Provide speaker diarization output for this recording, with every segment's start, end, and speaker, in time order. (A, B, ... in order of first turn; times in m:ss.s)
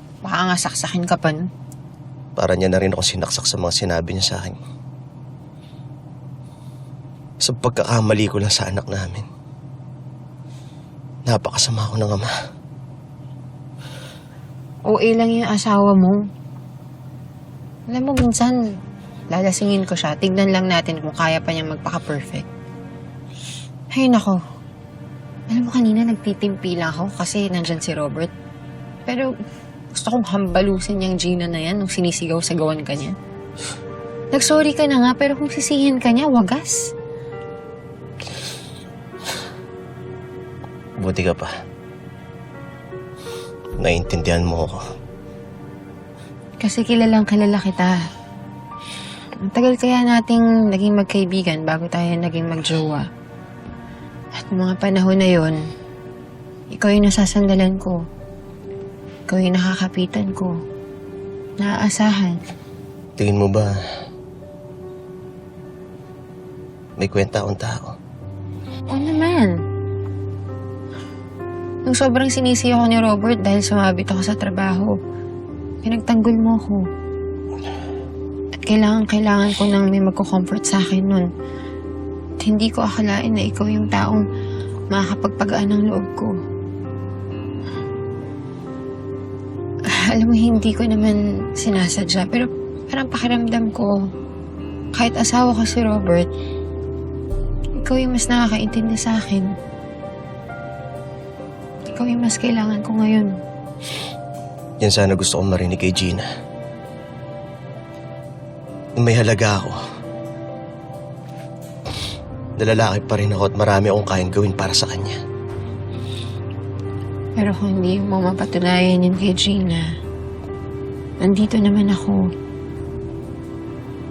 0:00.2-0:01.4 A
0:02.4-0:04.6 B
0:07.4-0:09.2 B
0:11.3-0:12.3 B
0:14.9-0:16.2 A
0:17.9-0:18.6 A
0:19.3-0:22.5 A
0:23.9-0:24.4 A
0:25.5-0:28.3 A
0:29.0-0:29.3 A
0:29.9-0:33.1 A
0:34.3-0:36.9 A
0:41.0-0:41.5 B
0:43.8-0:44.8 B
0:46.6-0:48.0 A
0:49.4-0:53.0 A
0:54.3-0:55.6 A
0:56.7-0:58.0 A
0:59.3-1:00.5 A
1:01.6-1:02.4 A
1:03.2-1:03.7 B
1:07.0-1:07.9 B
1:08.9-1:09.5 A
1:11.8-1:14.9 A
1:15.8-1:16.8 A
1:18.6-1:21.3 A
1:22.4-1:24.2 A
1:24.9-1:26.4 A
1:29.9-1:34.0 A
1:34.9-1:36.3 A
1:37.8-1:39.5 A
1:41.9-1:43.3 A
1:44.8-1:46.2 B
1:49.0-1:49.8 B
1:52.6-1:55.2 B
1:57.4-1:59.9 A
2:01.2-2:02.2 A